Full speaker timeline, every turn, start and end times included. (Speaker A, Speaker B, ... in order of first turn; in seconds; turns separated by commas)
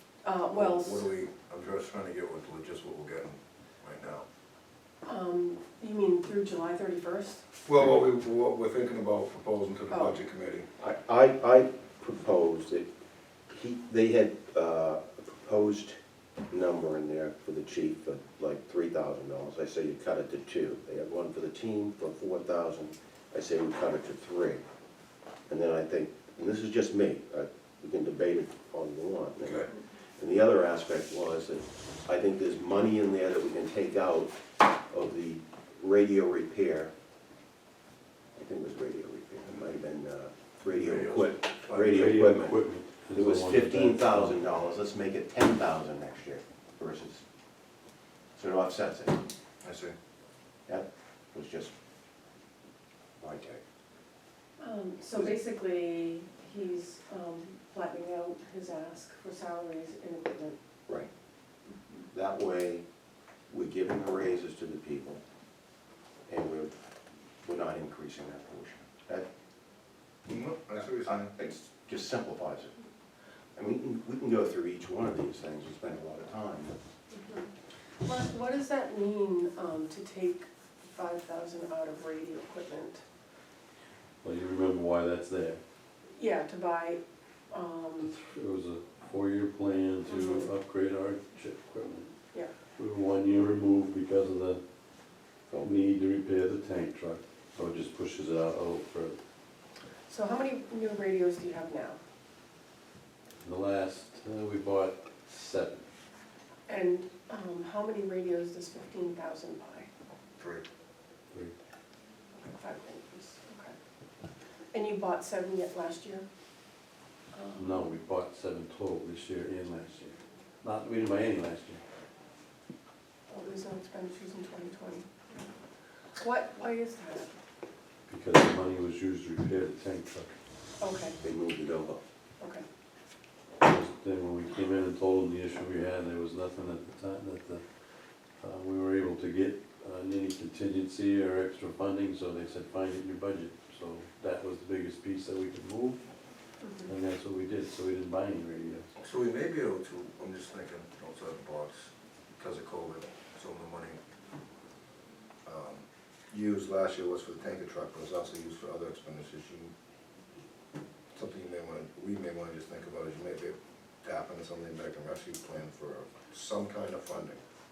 Speaker A: 0.2-1.1, Speaker B: 0.5-4.3, Speaker A: 5.1-7.4, Speaker B: 7.7-10.7, Speaker A: 9.9-10.2, Speaker C: 10.8-12.9, Speaker C: 13.5-16.0, Speaker C: 16.5-24.6, Speaker C: 25.5-34.4, Speaker C: 34.9-36.9, Speaker C: 38.4-47.2, Speaker B: 40.7-41.9, Speaker D: 41.7-44.4, Speaker C: 48.4-49.2, Speaker B: 49.6-50.0, Speaker C: 50.7-51.7, Speaker C: 53.2-53.6, Speaker A: 54.6-60.6, Speaker C: 62.1-62.8, Speaker C: 63.5-65.2, Speaker C: 66.3-66.7, Speaker C: 67.4-69.3, Speaker B: 70.3-71.3, Speaker C: 70.8-72.8, Speaker C: 73.5-76.8, Speaker A: 77.1-77.5, Speaker A: 78.0-83.0, Speaker D: 84.2-85.6, Speaker A: 86.2-88.1, Speaker D: 88.0-92.1, Speaker A: 90.0-90.5, Speaker D: 92.8-94.6, Speaker C: 95.5-95.8, Speaker D: 95.6-99.2, Speaker A: 100.1-102.0, Speaker D: 103.4-105.8, Speaker A: 106.7-109.9, Speaker A: 112.3-113.8, Speaker A: 114.7-116.3, Speaker A: 117.3-117.9, Speaker D: 117.6-121.8, Speaker A: 123.3-125.4, Speaker A: 126.2-127.3, Speaker D: 128.1-130.3, Speaker A: 130.8-131.2, Speaker C: 131.2-132.0, Speaker A: 132.4-132.7, Speaker D: 133.6-146.1, Speaker A: 146.6-146.9, Speaker D: 146.8-148.9, Speaker B: 149.0-154.0, Speaker B: 155.5-159.7, Speaker B: 161.1-167.4